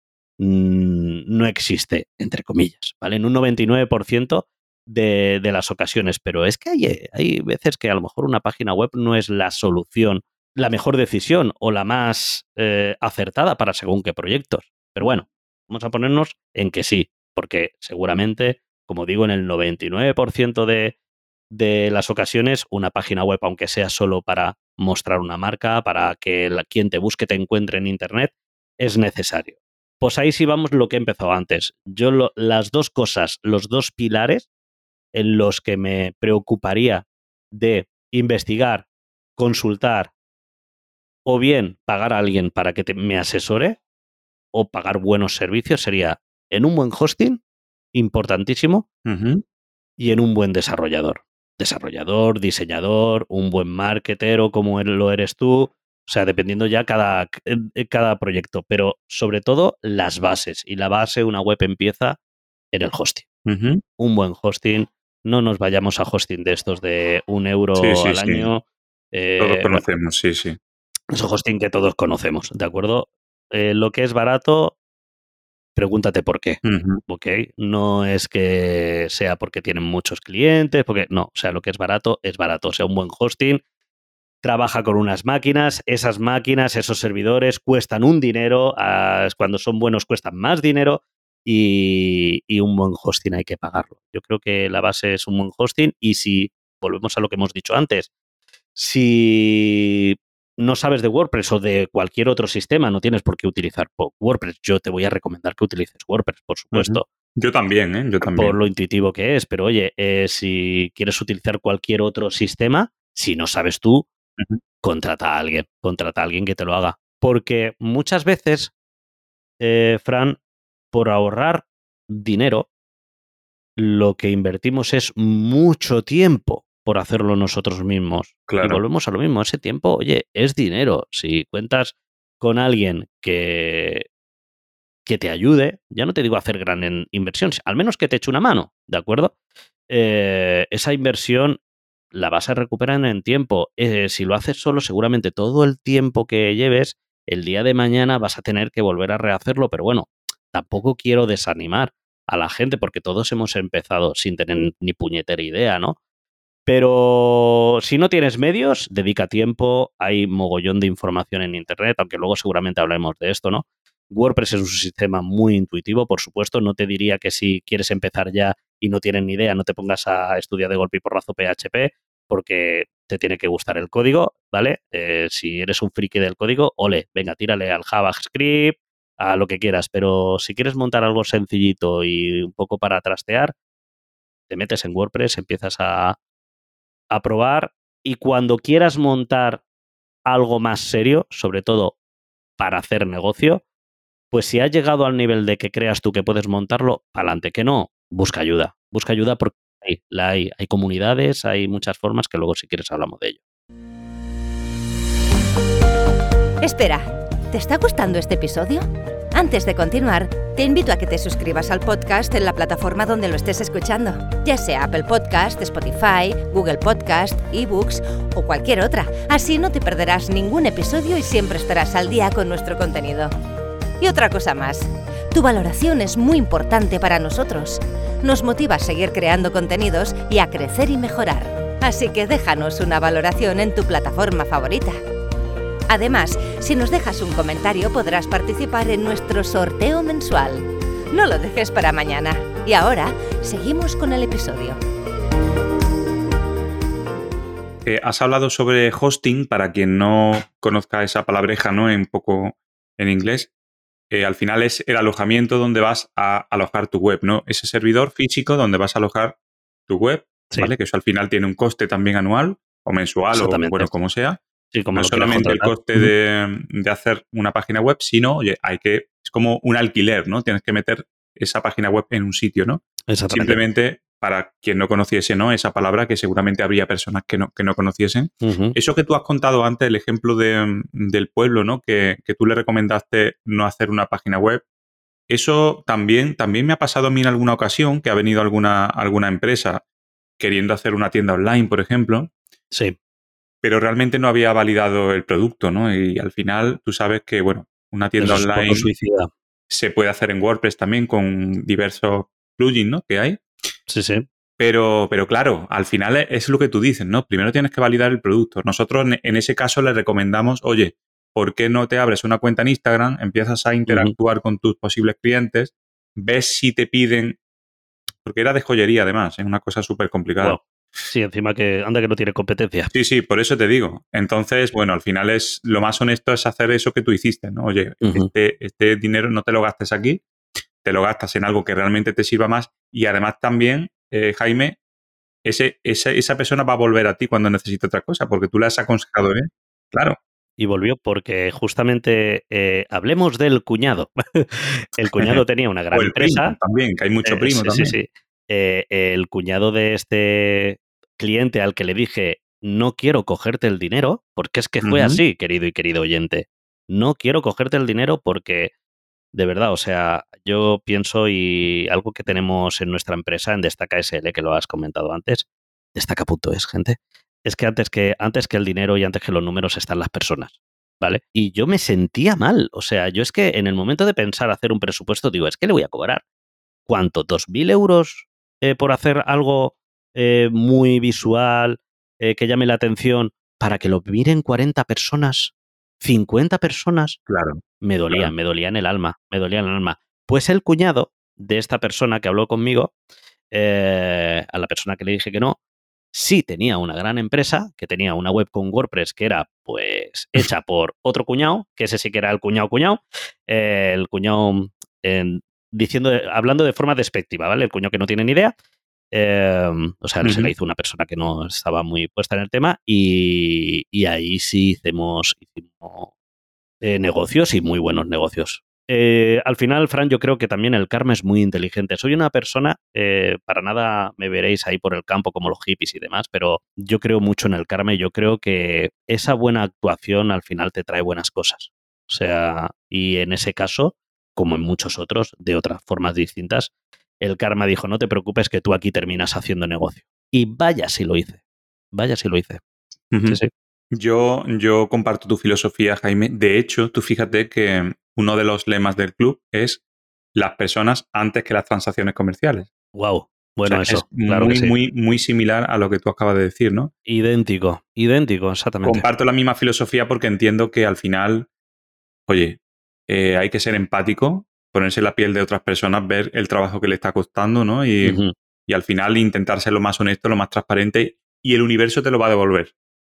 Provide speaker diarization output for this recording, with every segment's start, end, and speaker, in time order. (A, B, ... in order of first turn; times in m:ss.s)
0:00.4-0:20.9 A
0:21.5-0:34.4 A
0:35.1-0:38.8 A
0:39.4-0:40.1 A
0:41.3-0:43.8 A
0:44.5-0:47.4 A
0:47.9-0:48.9 A
0:49.0-0:49.4 B
0:50.0-1:02.2 A
1:02.7-1:03.3 A
1:03.4-1:03.8 B
1:04.0-1:09.8 A
1:07.8-1:08.5 B
1:09.4-1:10.6 B
1:11.1-1:14.8 A
1:15.8-1:23.6 A
1:16.6-1:17.0 B
1:24.4-1:38.1 A
1:38.8-1:47.0 A
1:46.7-1:48.6 B
1:48.2-1:54.0 A
1:54.8-1:58.7 A
1:59.6-2:00.4 A
2:00.9-2:02.7 A
2:03.8-2:14.1 A
2:08.5-2:08.8 B
2:15.0-2:19.3 A
2:19.9-2:21.6 A
2:22.1-2:36.0 A
2:36.7-3:03.5 A
3:04.5-3:06.2 A
3:07.1-3:09.6 A
3:10.3-3:11.9 A
3:12.6-3:13.6 A
3:14.3-3:23.4 A
3:26.6-3:43.3 C
3:44.0-3:55.0 C
3:55.9-4:04.8 C
4:07.8-4:13.5 B
4:14.1-4:19.4 B
4:19.9-4:24.4 B
4:23.3-4:23.9 A
4:24.7-4:26.1 A
4:24.9-4:32.8 B
4:33.1-4:33.6 A
4:33.3-4:44.6 B
4:38.4-4:38.8 A
4:45.3-4:49.8 B
4:50.4-4:52.3 B
4:53.6-4:58.9 B
4:58.2-4:59.3 A
4:59.7-5:03.3 B
5:03.9-5:04.2 A
5:04.6-5:17.4 B
5:13.9-5:14.1 A
5:18.2-5:20.6 B
5:20.4-5:22.9 A
5:22.9-5:30.2 B
5:28.0-5:28.3 A
5:30.8-5:34.7 B
5:35.4-5:40.1 B
5:40.6-5:46.6 A
5:45.9-5:47.9 B
5:47.2-5:58.7 A
5:54.8-5:55.2 B
5:59.3-6:16.2 A
6:16.9-6:27.2 A
6:27.3-6:27.6 B
6:27.8-6:32.9 A
6:33.5-6:35.6 A
6:36.1-6:48.5 A
6:49.1-6:56.1 A
6:50.2-6:50.5 B
6:56.8-7:21.4 A
7:21.9-7:22.6 A
7:23.1-7:23.4 B
7:24.0-7:29.8 B
7:30.4-7:32.6 B
7:32.9-7:34.7 A
7:33.7-7:36.9 B
7:37.0-7:39.0 A
7:38.8-7:41.5 B
7:42.3-7:42.6 B
7:43.1-7:52.7 B
7:48.0-7:48.3 A